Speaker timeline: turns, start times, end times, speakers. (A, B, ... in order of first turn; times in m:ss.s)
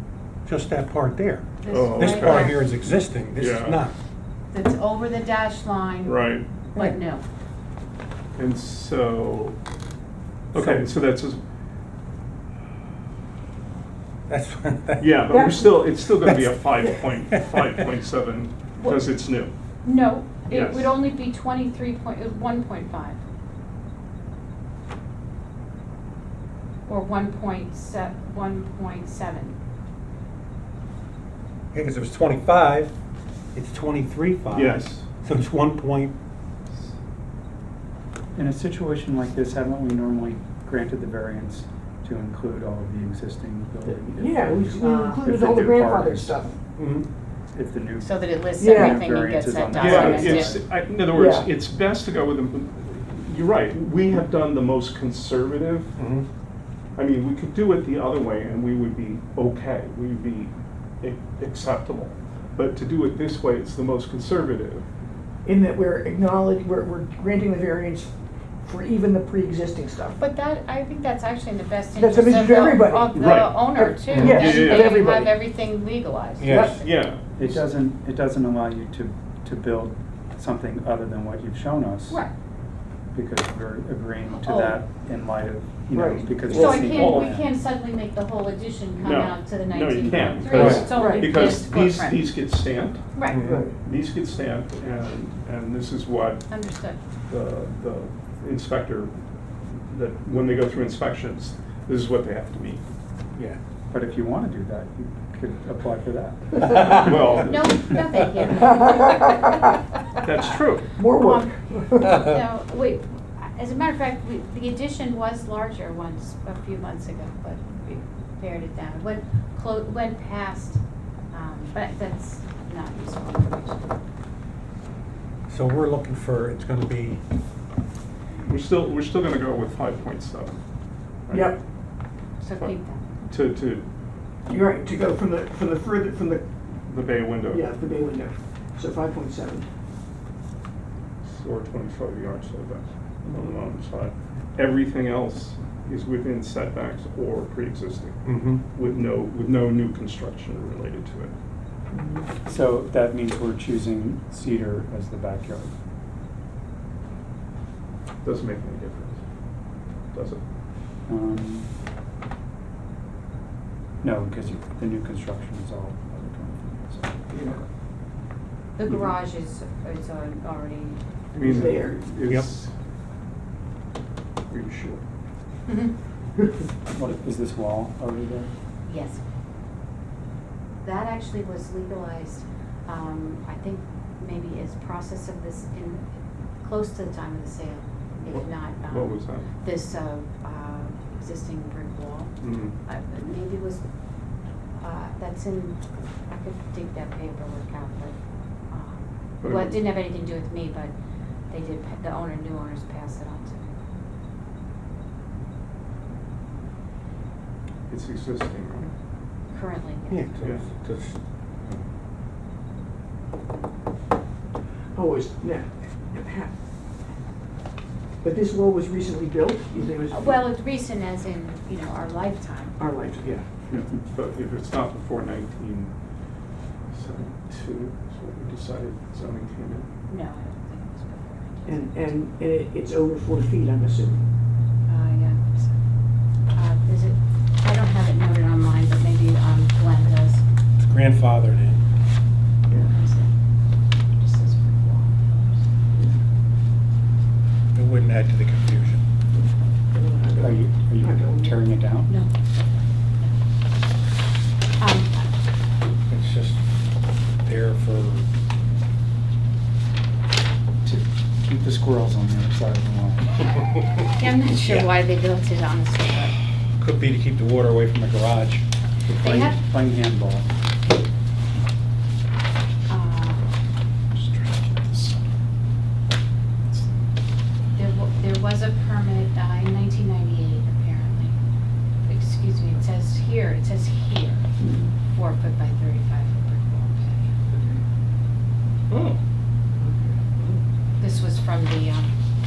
0:00.4-0:03.9 A
0:01.6-0:02.6 B
0:01.7-0:02.6 C
0:03.4-0:03.8 C
0:04.5-0:07.2 B
0:06.0-0:06.5 C
0:08.4-0:09.6 C
0:10.5-0:11.4 C
0:10.6-0:10.8 A
0:14.3-0:15.3 A
0:15.0-0:19.5 C
0:15.3-0:15.8 D
0:16.3-0:16.5 A
0:17.3-0:17.6 A
0:18.8-0:19.1 B
0:19.8-0:23.2 B
0:20.5-0:20.9 C
0:26.9-0:29.6 B
0:31.7-0:32.9 A
0:33.5-0:36.2 A
0:34.5-0:35.1 C
0:38.4-0:46.4 E
0:43.8-0:46.6 D
0:44.8-0:45.2 B
0:46.8-0:47.1 A
0:47.5-0:50.6 E
0:48.0-0:50.6 B
0:48.6-0:49.1 D
0:49.8-0:56.0 C
0:51.1-0:51.5 D
0:56.0-0:56.3 A
0:57.0-1:04.9 C
1:05.4-1:08.1 D
1:08.6-1:10.2 D
1:10.2-1:17.0 B
1:11.9-1:15.4 D
1:13.1-1:15.0 C
1:14.1-1:14.5 A
1:16.4-1:16.8 A
1:16.5-1:16.8 D
1:16.8-1:17.6 C
1:17.4-1:22.2 E
1:23.1-1:27.5 E
1:24.3-1:24.8 B
1:25.9-1:27.0 D
1:26.0-1:27.4 C
1:26.5-1:32.4 B
1:29.0-1:36.5 C
1:30.1-1:30.9 E
1:30.5-1:30.8 A
1:30.6-1:31.4 D
1:33.2-1:33.5 B
1:33.3-1:33.6 A
1:33.4-1:33.8 D
1:36.5-1:37.0 B
1:37.3-1:39.1 C
1:39.9-1:42.8 C
1:43.9-1:47.4 E
1:46.9-1:48.0 C
1:47.4-1:49.2 B
1:48.6-1:49.5 D
1:50.2-1:50.9 C
1:50.5-2:00.8 B
1:51.0-1:52.3 D
2:01.3-2:03.9 B
2:05.5-2:07.2 A
2:08.4-2:10.6 C
2:11.3-2:11.6 C
2:11.3-2:11.6 D
2:12.4-2:13.0 B
2:12.6-2:13.8 C
2:14.5-2:16.4 D
2:16.9-2:17.6 C
2:17.5-2:19.7 D
2:21.2-2:31.3 C
2:23.2-2:23.6 D
2:28.2-2:28.6 A
2:31.9-2:32.3 D
2:32.4-2:35.7 E
2:38.2-2:39.2 C
2:40.1-2:40.4 C
2:41.1-2:41.7 E
2:44.0-2:47.6 E
2:47.3-2:47.6 D
2:48.8-2:51.0 B
2:51.3-2:52.7 C
2:51.4-2:52.0 D
2:54.5-2:55.0 C
2:55.7-2:56.0 B
2:56.9-2:58.5 E
2:58.8-2:59.2 B
3:00.8-3:06.0 B
3:06.6-3:13.8 B
3:08.3-3:09.5 C
3:12.4-3:12.7 C
3:14.8-3:18.2 B
3:18.7-3:20.9 B
3:19.4-3:19.8 C
3:21.5-3:23.7 B
3:27.9-3:28.9 C
3:29.5-3:30.5 B
3:30.1-3:31.2 A
3:30.4-3:30.7 C
3:35.0-3:36.5 D
3:38.2-3:40.4 D
3:40.0-3:42.8 B
3:42.8-3:43.5 D
3:43.7-3:45.9 C
3:46.9-3:49.9 C
3:50.1-3:52.3 B
3:51.7-3:54.2 D
3:54.9-3:55.8 B
3:56.6-4:00.4 B
4:00.8-4:01.8 A
4:02.7-4:02.9 D
4:02.7-4:03.3 B
4:04.1-4:05.6 B
4:07.8-4:09.0 A
4:09.3-4:11.6 D
4:10.4-4:12.1 E
4:14.8-4:15.3 B
4:16.1-4:16.6 A
4:17.4-4:18.3 A
4:20.8-4:23.5 E
4:24.2-4:26.4 B
4:24.6-4:24.9 A
4:26.8-4:28.6 A
4:29.1-4:30.5 E
4:29.1-4:29.6 B
4:32.9-4:33.5 B
4:34.1-4:35.3 C
4:37.8-4:41.4 B
4:42.1-4:44.5 B
4:44.6-4:44.9 D
4:45.0-4:47.3 B
4:47.5-4:47.8 D
4:48.9-4:49.2 C
4:49.8-4:50.2 D
4:51.0-4:52.1 B